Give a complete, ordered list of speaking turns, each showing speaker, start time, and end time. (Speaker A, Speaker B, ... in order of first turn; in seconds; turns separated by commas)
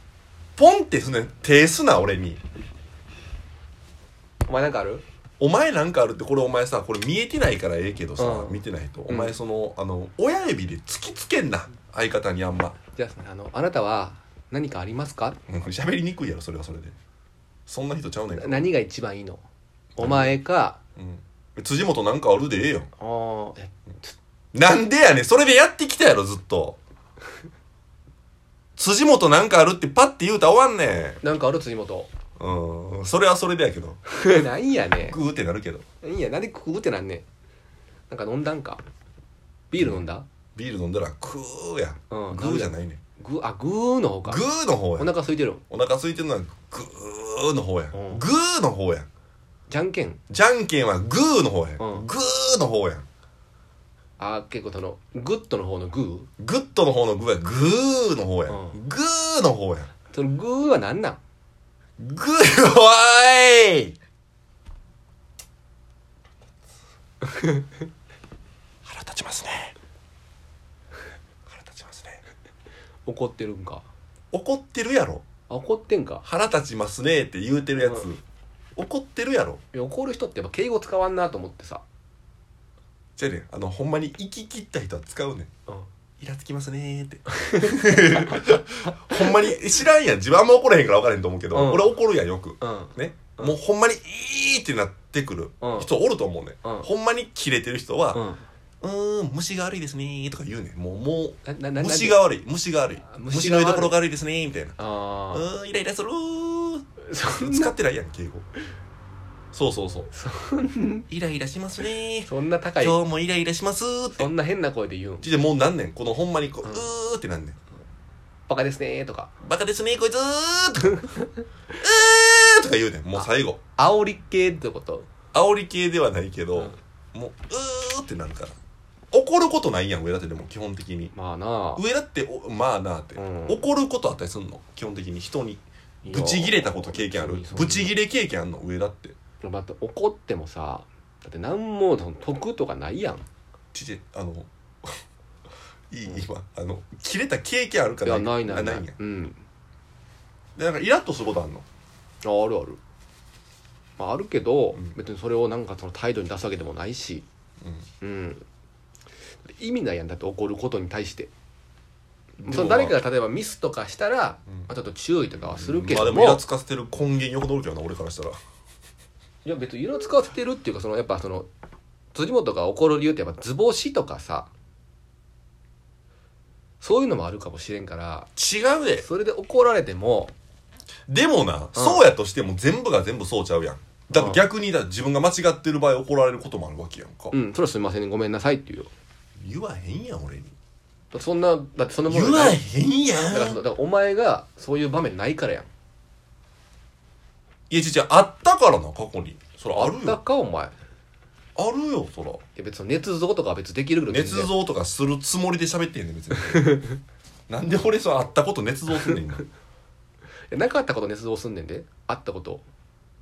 Speaker A: 0.6-2.4, Speaker B: 4.5-5.0, Speaker A: 5.4-12.8, Speaker B: 8.2-9.4, Speaker B: 12.9-15.4, Speaker A: 15.5-16.9, Speaker A: 17.7-18.7, Speaker B: 18.3-19.4, Speaker B: 20.0-20.8, Speaker A: 20.0-20.4, Speaker A: 21.0-22.9, Speaker B: 23.0-24.1, Speaker A: 24.5-26.8, Speaker A: 28.8-31.2, Speaker B: 31.2-32.1, Speaker A: 32.4-34.0, Speaker B: 34.0-35.4, Speaker A: 34.9-35.9, Speaker B: 36.0-37.2, Speaker B: 38.1-38.8, Speaker B: 39.7-40.2, Speaker A: 39.8-40.0, Speaker A: 40.6-43.0, Speaker B: 42.1-45.6, Speaker A: 44.2-49.1, Speaker B: 47.9-48.3, Speaker B: 49.7-50.2, Speaker A: 50.3-53.0, Speaker B: 51.8-52.1, Speaker B: 54.2-56.3, Speaker A: 56.4-59.9, Speaker B: 58.5-58.9, Speaker B: 60.0-61.2, Speaker A: 62.0-64.0, Speaker A: 68.8-69.7, Speaker A: 71.5-72.2, Speaker B: 73.1-73.8, Speaker A: 74.3-75.2, Speaker B: 75.5-76.2, Speaker A: 76.2-78.2, Speaker B: 77.8-78.1, Speaker A: 78.8-79.6, Speaker B: 79.7-81.8, Speaker A: 83.2-85.5, Speaker A: 86.2-104.7, Speaker B: 87.3-89.8, Speaker B: 91.5-92.0, Speaker B: 92.6-93.6, Speaker B: 95.6-95.9, Speaker B: 96.6-96.9, Speaker B: 98.1-98.4, Speaker B: 101.4-102.4, Speaker B: 103.0-104.0, Speaker B: 104.8-105.5, Speaker A: 105.3-108.5, Speaker B: 107.0-107.8, Speaker A: 109.5-110.1, Speaker B: 110.1-111.1, Speaker A: 111.1-114.3, Speaker B: 111.9-113.0, Speaker B: 114.0-115.5, Speaker A: 115.2-117.6, Speaker B: 116.6-116.9, Speaker B: 118.5-119.3, Speaker A: 119.4-120.9, Speaker B: 120.8-121.3, Speaker A: 121.8-123.6, Speaker B: 123.1-125.1, Speaker A: 125.3-128.6, Speaker A: 129.1-131.1, Speaker B: 131.1-131.8, Speaker A: 131.8-139.2, Speaker B: 133.1-133.8, Speaker B: 136.0-138.0, Speaker B: 139.4-143.3, Speaker A: 143.7-144.9, Speaker A: 145.9-149.0, Speaker B: 148.0-149.4, Speaker A: 150.6-151.7, Speaker B: 152.2-152.8, Speaker B: 154.0-157.2, Speaker B: 157.9-158.4, Speaker B: 159.5-161.3, Speaker B: 162.4-166.5, Speaker A: 162.5-163.1, Speaker A: 165.3-168.4, Speaker B: 169.4-171.5, Speaker B: 172.1-174.5, Speaker B: 176.8-180.3, Speaker A: 178.4-179.1, Speaker A: 181.1-187.4, Speaker B: 181.7-182.2, Speaker B: 183.9-184.5, Speaker B: 187.3-188.9, Speaker A: 189.4-190.5, Speaker B: 191.1-192.6, Speaker A: 192.1-193.6, Speaker B: 193.2-195.7, Speaker A: 197.7-200.2, Speaker B: 199.4-200.7, Speaker A: 201.6-202.4, Speaker B: 202.6-204.6, Speaker A: 204.1-206.6, Speaker B: 206.3-207.0, Speaker A: 207.5-209.4, Speaker B: 208.9-209.2, Speaker B: 210.5-212.6